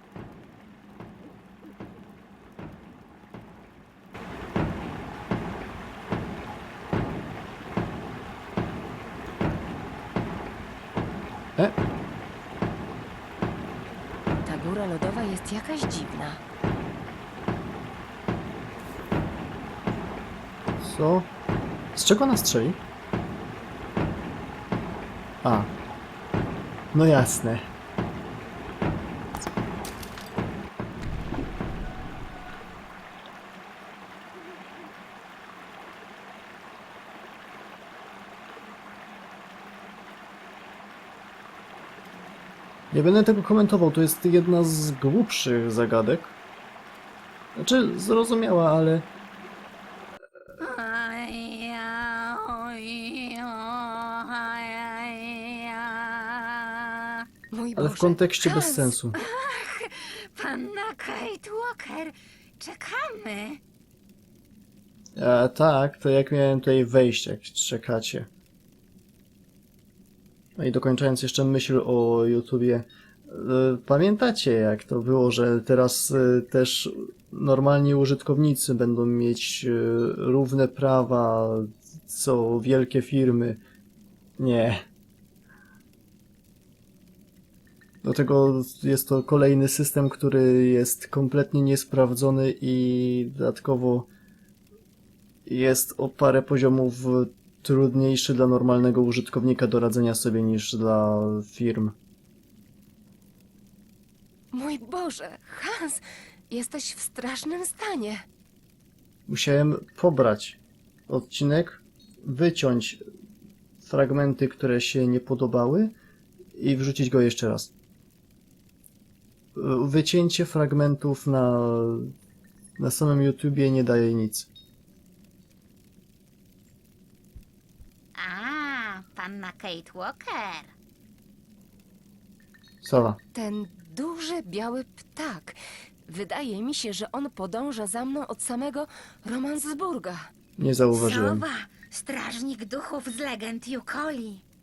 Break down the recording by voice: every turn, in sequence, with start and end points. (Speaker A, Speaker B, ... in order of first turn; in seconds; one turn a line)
Speaker A: 14.4-16.4
Speaker B: 20.8-21.3
Speaker B: 21.9-22.8
Speaker B: 25.4-25.7
Speaker B: 26.9-27.7
Speaker B: 42.9-46.4
Speaker B: 47.5-49.1
Speaker C: 50.6-57.3
Speaker A: 57.5-58.9
Speaker B: 57.8-59.2
Speaker C: 59.1-63.6
Speaker B: 65.2-68.3
Speaker B: 70.6-83.6
Speaker B: 84.4-84.8
Speaker B: 88.0-94.1
Speaker B: 95.5-102.0
Speaker A: 104.5-108.2
Speaker B: 109.3-113.0
Speaker B: 113.8-116.0
Speaker B: 116.5-117.7
Speaker B: 119.5-122.1
Speaker B: 122.8-124.5
Speaker C: 128.2-130.7
Speaker B: 132.8-133.2
Speaker A: 133.3-140.3
Speaker B: 140.6-141.4
Speaker C: 140.9-144.4